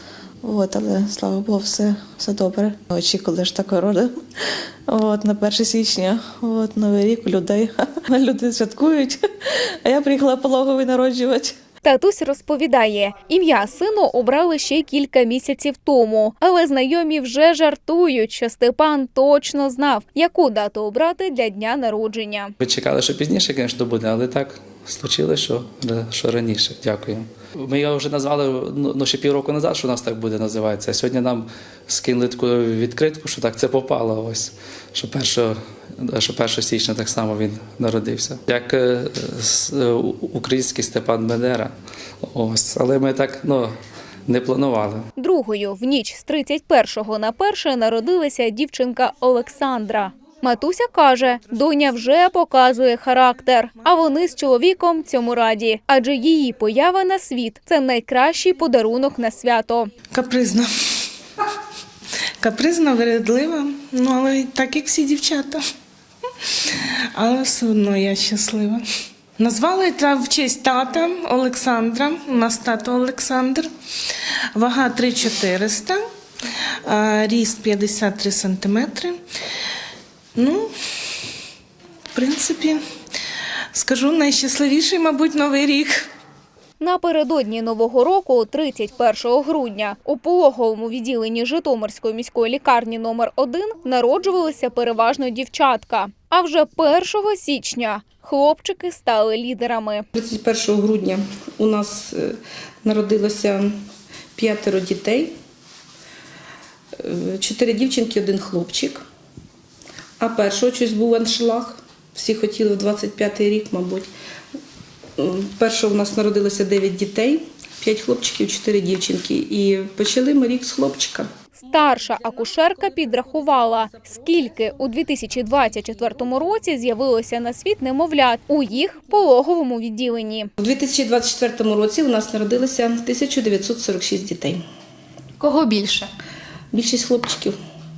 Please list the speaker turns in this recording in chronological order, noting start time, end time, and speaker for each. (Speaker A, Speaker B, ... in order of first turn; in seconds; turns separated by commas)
Speaker A: 0.4-4.1, Speaker A: 4.9-9.2, Speaker A: 9.8-11.6, Speaker B: 11.8-22.5, Speaker C: 22.6-41.7, Speaker C: 42.3-43.7, Speaker C: 44.3-45.1, Speaker B: 45.2-59.9, Speaker D: 60.1-61.0, Speaker D: 62.4-65.6, Speaker D: 66.4-68.8, Speaker D: 69.4-76.0, Speaker D: 76.6-79.2, Speaker D: 80.4-81.1, Speaker D: 82.1-82.8, Speaker D: 83.7-86.1, Speaker B: 86.8-100.1, Speaker E: 100.1-103.8, Speaker E: 104.4-105.3, Speaker E: 107.0-109.0, Speaker E: 110.2-114.1, Speaker E: 115.2-121.3, Speaker B: 121.5-130.5, Speaker E: 130.6-134.6, Speaker B: 135.4-136.1, Speaker E: 136.7-137.6